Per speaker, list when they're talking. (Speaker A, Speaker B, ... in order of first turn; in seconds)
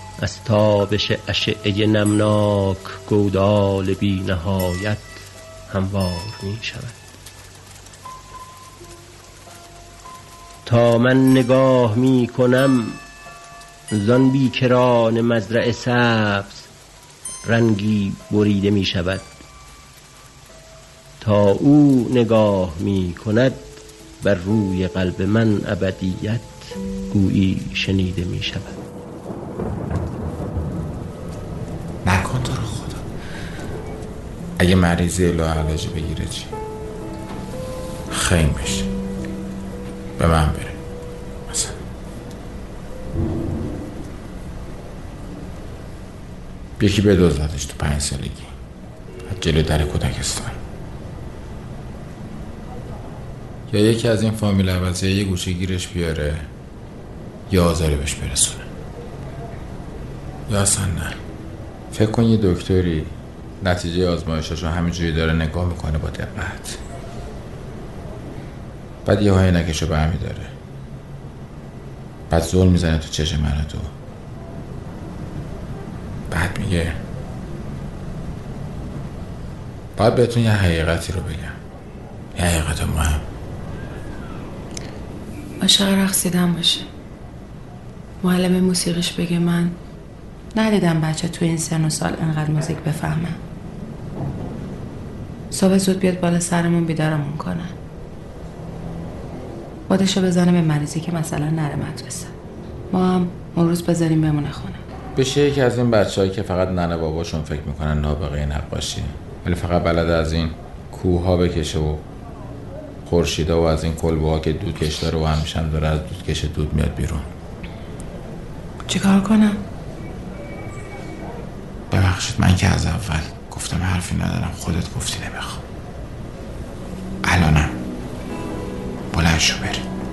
Speaker A: 0.2-7.0, 10.7-13.0, 13.9-16.7, 17.4-19.3, 21.2-23.7, 24.2-28.8
Speaker B: 32.0-33.0, 34.6-36.5, 38.1-38.9, 40.2-40.8, 41.5-41.8, 46.8-48.5, 49.3-50.6, 53.7-56.5, 57.5-58.7, 60.5-61.2, 61.9-66.8, 69.0-70.5, 72.3-73.9, 76.3-77.0, 80.0-81.6, 82.4-83.2, 105.2-112.0, 113.1-117.3, 121.9-125.6, 127.2-127.8, 129.1-129.8
Speaker C: 85.6-86.9, 88.2-89.8, 90.5-93.4, 95.5-97.7, 99.9-102.3, 102.9-104.8, 118.9-119.6